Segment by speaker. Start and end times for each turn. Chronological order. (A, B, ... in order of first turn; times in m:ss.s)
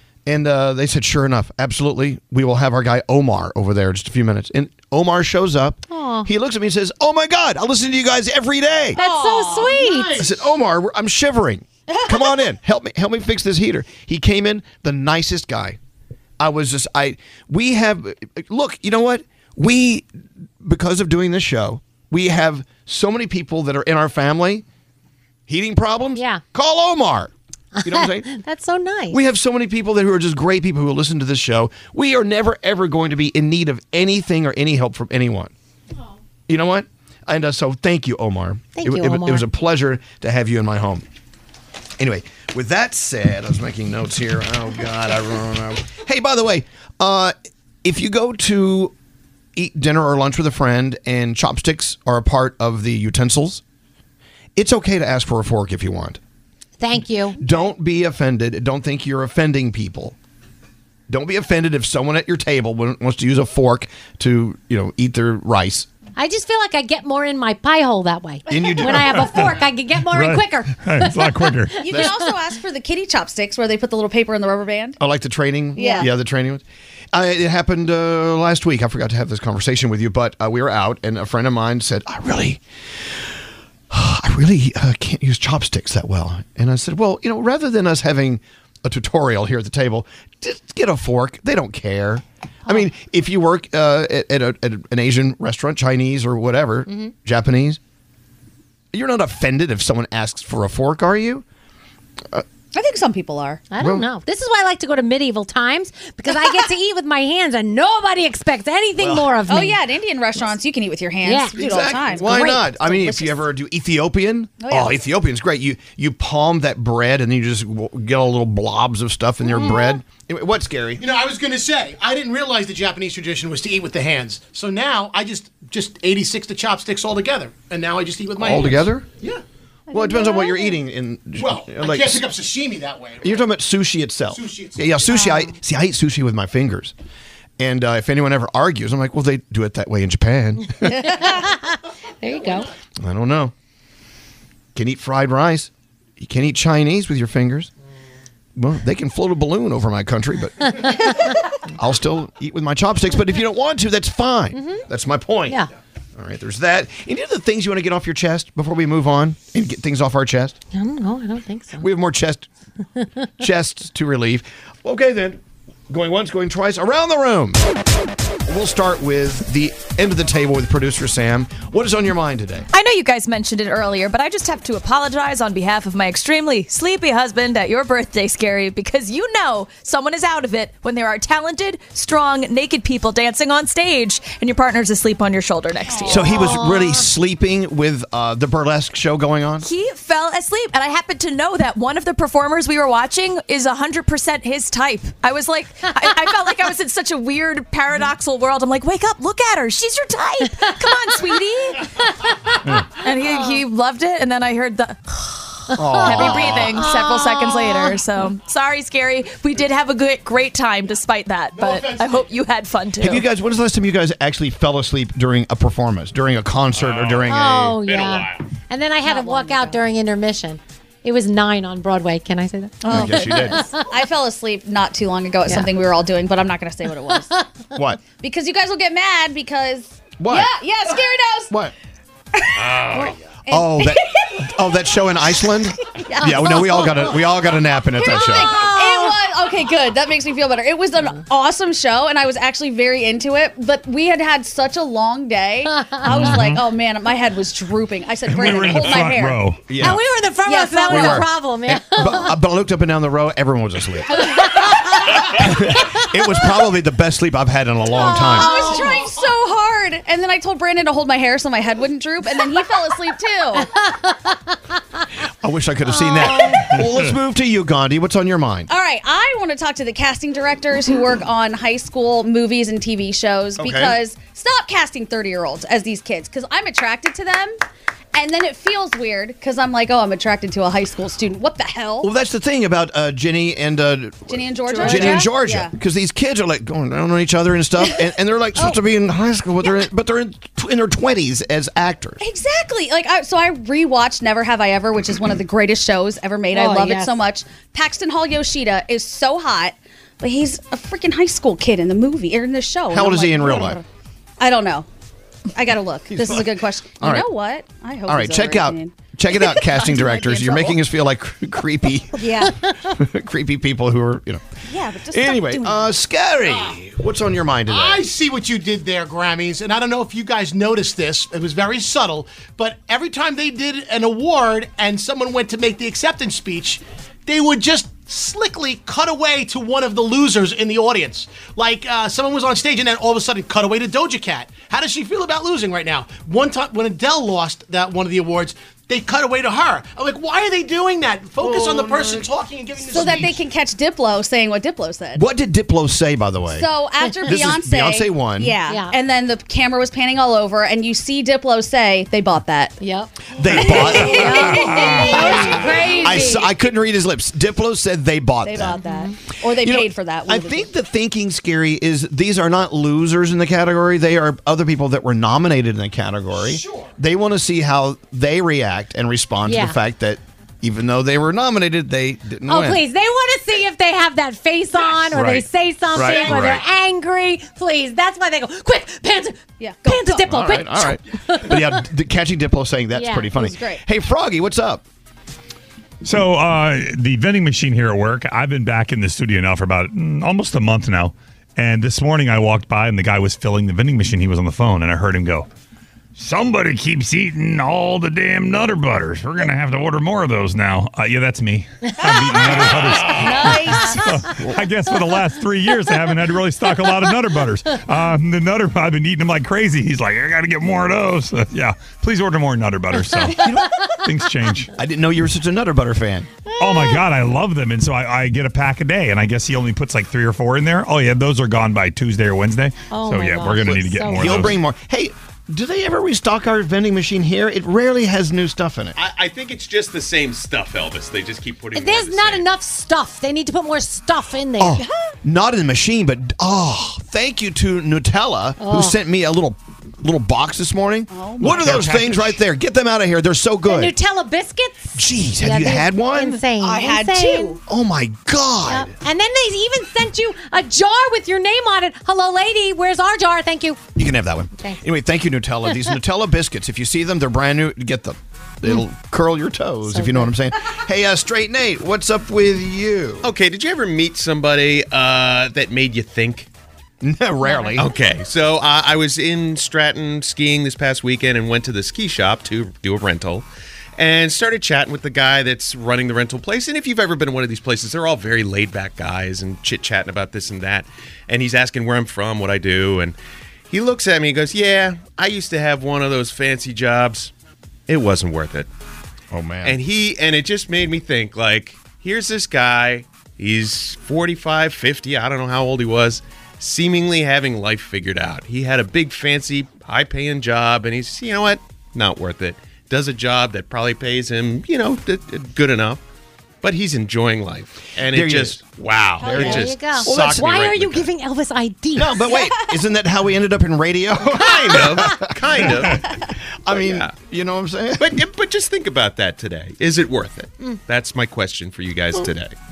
0:00.3-0:09.0 A
0:05.9-0:06.3 B
0:09.0-0:10.2 B
0:09.0-0:09.8 C
0:09.5-0:10.4 D
0:10.2-0:15.8 A
0:11.9-0:12.4 C
0:16.4-0:20.1 A
0:20.6-0:24.6 A
0:25.5-0:27.3 A
0:26.2-0:26.4 B
0:27.8-0:29.2 B
0:27.8-0:28.3 A
0:29.1-0:35.5 A
0:36.5-0:41.0 A
0:38.8-0:39.5 B
0:42.0-0:48.9 A
0:49.6-0:53.6 A
0:54.6-0:56.2 A
0:56.8-0:57.4 B
0:57.4-1:00.2 A
1:01.1-1:05.9 A
1:06.2-1:12.2 B
1:08.5-1:09.5 A
1:09.1-1:11.9 E
1:11.8-1:15.0 C
1:15.0-1:22.6 A
1:15.8-1:16.1 C
1:15.8-1:16.1 B
1:23.9-1:37.8 A
1:36.9-1:37.1 B
1:38.9-1:41.4 A
1:42.7-1:43.6 C
1:43.7-1:49.8 B
1:43.8-1:44.1 A
1:49.0-1:49.3 A
1:49.5-1:53.4 C
1:51.2-1:51.6 B
1:51.6-2:01.0 A
1:52.1-1:52.7 B
1:54.6-1:55.0 C
1:59.5-2:00.0 B
2:01.0-2:09.3 D
2:08.4-2:09.1 A
2:09.9-2:12.3 A
2:10.0-2:10.6 B
2:11.4-2:13.5 D
2:13.2-2:16.9 A
2:14.3-2:15.3 D
2:15.1-2:15.5 B
2:17.6-2:21.0 A
2:20.9-2:21.3 C
2:21.0-2:22.7 B
2:23.0-2:23.5 A
2:24.8-2:27.7 A
2:28.6-2:30.9 A
2:31.8-2:35.6 A
2:34.5-2:34.8 B
2:36.2-2:40.6 A
2:40.7-2:41.9 B
2:41.8-2:42.5 A
2:43.4-2:47.6 A
2:48.5-2:52.7 A
2:52.7-3:06.4 F
3:06.0-3:09.7 A
3:06.1-3:07.1 B
3:09.6-3:21.9 F
3:22.7-3:33.3 F
3:25.8-3:26.7 A
3:25.8-3:27.9 B
3:31.5-3:32.3 D
3:33.0-3:37.8 A
3:36.8-3:38.4 G
3:37.3-3:43.8 B
3:39.1-3:39.8 C
3:42.8-3:47.3 C
3:42.9-3:43.7 A
3:47.7-3:48.0 A
3:48.2-3:51.5 C
3:50.2-3:50.5 A
3:52.4-3:54.4 C
3:52.6-3:53.2 G
3:53.5-3:58.7 A
3:56.0-3:57.3 C
3:58.0-4:09.4 C
3:58.5-3:59.1 B
4:05.8-4:06.3 B
4:06.1-4:06.6 E
4:08.3-4:09.6 E
4:09.7-4:10.0 A
4:09.8-4:12.3 B
4:10.4-4:11.2 C
4:10.9-4:14.4 A
4:14.1-4:15.5 B
4:15.1-4:18.8 A
4:17.9-4:23.7 C
4:18.1-4:19.1 B
4:23.8-4:24.3 B
4:25.4-4:28.7 A
4:25.9-4:26.7 B
4:28.7-4:37.6 C
4:33.6-4:34.0 A
4:38.2-4:42.1 C
4:42.0-4:52.2 A
4:44.3-4:45.7 C
4:44.7-4:45.1 B
4:52.2-5:03.8 C
4:56.5-4:57.1 B
5:02.9-5:03.8 A
5:04.4-5:04.9 C
5:05.6-5:10.8 C
5:06.1-5:07.3 A
5:08.1-5:12.3 A
5:12.2-5:12.6 C
5:12.8-5:14.4 A
5:14.7-5:15.8 C
5:15.1-5:18.1 A
5:17.7-5:43.4 D
5:41.4-5:42.3 A
5:42.9-5:45.2 C
5:45.2-5:46.7 A
5:46.5-5:52.8 C
5:47.2-5:48.6 A
5:48.7-5:48.9 B
5:52.8-5:56.5 B
5:53.4-5:58.8 A
5:53.5-5:56.0 C
5:54.5-5:55.2 E
5:58.4-6:00.7 C
5:58.8-5:59.2 B
5:59.6-6:12.8 A
6:06.4-6:06.9 D
6:09.5-6:09.8 B
6:12.5-6:21.8 B
6:15.1-6:16.6 A
6:19.6-6:20.4 C
6:20.3-6:24.8 A
6:23.0-6:23.3 B
6:23.3-6:23.8 C
6:26.0-6:35.5 E
6:36.2-6:54.7 E
6:43.1-6:44.0 B
6:43.2-6:43.9 C
6:54.8-6:56.3 A
6:56.6-7:04.6 E
6:56.7-6:57.0 B
7:02.9-7:04.5 B
7:04.1-7:09.0 A
7:09.0-7:12.4 G
7:11.7-7:14.8 B
7:14.6-7:23.9 A
7:18.6-7:19.0 B
7:21.1-7:21.9 C
7:21.5-7:22.4 E
7:23.7-7:27.6 B
7:25.0-7:26.4 A
7:26.6-7:27.6 C
7:27.7-7:28.9 A
7:28.7-7:33.8 B
7:34.0-7:43.3 A
7:39.9-7:40.3 B
7:43.2-7:46.5 G
7:47.0-7:47.9 A
7:47.4-7:47.8 B
7:47.8-7:53.5 G
7:54.0-8:03.2 G
8:03.7-8:07.3 G
8:07.9-8:08.7 G
8:09.3-8:09.8 A
8:09.6-8:26.0 G
8:26.6-8:31.0 G
8:28.1-8:28.6 A
8:29.2-8:29.5 C
8:29.2-8:31.0 A
8:29.2-8:32.3 B
8:32.0-8:35.7 A
8:34.3-8:36.0 G
8:36.7-8:38.2 A
8:36.7-8:37.1 G
8:38.0-8:42.5 G